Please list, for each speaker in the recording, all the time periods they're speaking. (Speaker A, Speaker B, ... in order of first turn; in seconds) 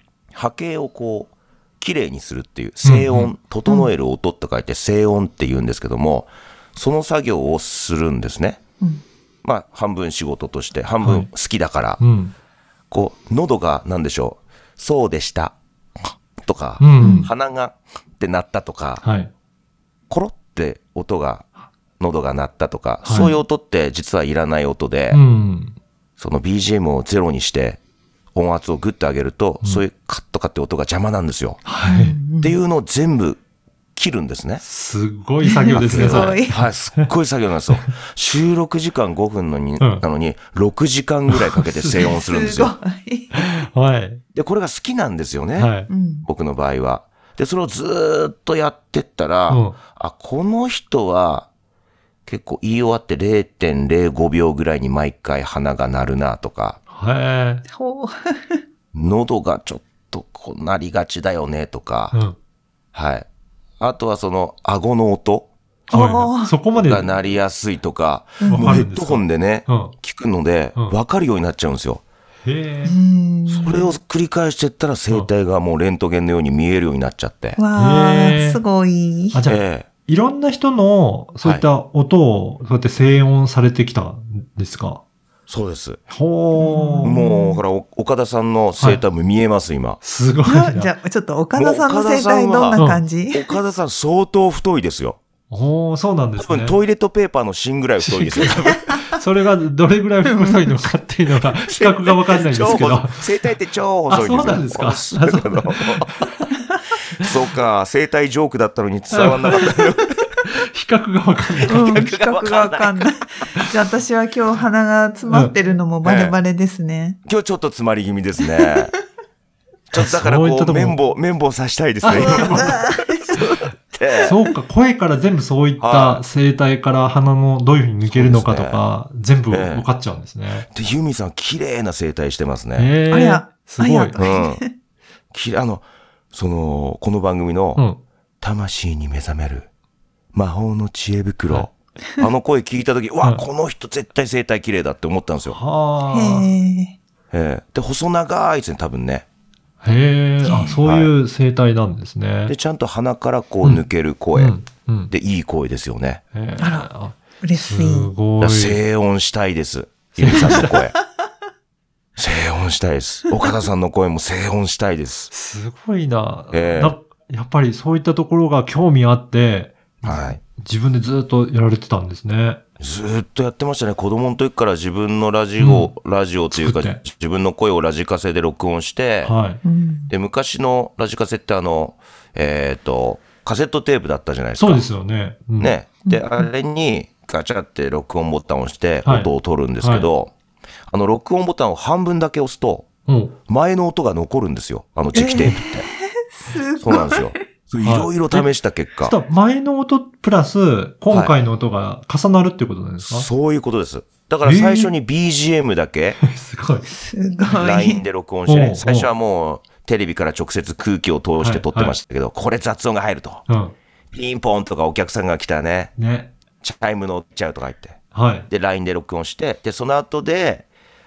Speaker A: 0.3-8.6, 9.4-12.0, 12.9-15.6, 16.4-19.0, 20.1-21.5, 22.0-25.2, 26.2-27.8, 28.4-31.7, 32.4-33.4, 33.9-34.6, 35.7-42.8, 44.4-45.7, 46.2-51.5, 52.2-56.8, 58.9-62.2, 62.9-63.2, 63.8-65.5, 66.7-72.0, 73.5-77.6, 79.5-79.9, 85.5-86.0, 87.0-90.0, 91.5-95.2, 96.4-98.9, 101.7-106.1, 107.2-110.2, 111.6-113.2, 116.0-116.4, 117.2-118.9, 119.9-122.9, 123.9-124.4, 125.8-126.2, 128.1-128.8, 129.5-129.9, 130.7-132.9, 134.2-134.6, 135.3-137.8, 138.4-139.7, 140.3-145.6, 147.3-149.2, 150.5-151.1, 152.5-154.6, 155.1-156.2, 158.4-160.9, 162.2-165.3, 166.5-166.9, 170.0-170.4, 172.8-179.3, 180.1-184.9, 185.6-190.3, 190.9-192.9, 193.5-195.9, 196.8-199.2, 203.0-206.2, 207.5-213.4, 214.1-215.9, 216.6-218.0, 218.5-220.7
Speaker B: 2.8-3.3, 11.0-11.3, 12.0-12.3, 16.8-17.3, 19.0-19.3, 23.0-23.4, 25.1-25.8, 31.6-32.2, 34.6-37.1, 41.3-42.1, 43.3-44.2, 45.6-45.9, 49.5-49.8, 56.9-57.6, 65.9-67.1, 68.5-69.9, 72.4-73.0, 77.8-78.6, 79.3-85.0, 86.1-87.2, 90.0-90.9, 92.8-93.0, 95.5-96.8, 98.0-103.3, 104.1-106.5, 109.1-109.8, 110.4-112.1, 115.3-115.5, 119.9-121.0, 122.0-122.8, 124.2-130.7, 132.8-134.3, 137.8-138.0, 145.4-146.5, 149.8-152.6, 154.3-155.1, 156.3-158.8, 160.1-160.7, 165.3-172.6, 175.6-175.9, 176.5-177.0, 179.2-179.6, 184.6-185.8, 189.1-190.1, 193.1-193.4, 197.8-198.5, 199.0-203.3, 204.4-204.9, 206.2-206.9, 208.4-209.1, 211.4-211.9, 213.5-213.7, 215.9-216.3, 218.1-218.5
Speaker C: 3.7-3.9, 17.0-17.3, 31.8-32.6, 35.4-36.6, 42.0-43.5, 45.9-46.3, 57.7-58.6, 65.9-66.6, 68.4-68.8, 72.8-73.9, 77.6-79.4, 86.6-87.6, 90.4-93.6, 100.2-100.9, 111.7-117.2, 118.6-118.9, 122.3-123.6, 133.1-134.7, 146.1-146.9, 150.4-150.8, 156.6-156.9, 157.4-158.1, 179.6-180.1, 186.1-186.5, 195.1-197.4, 206.9-208.0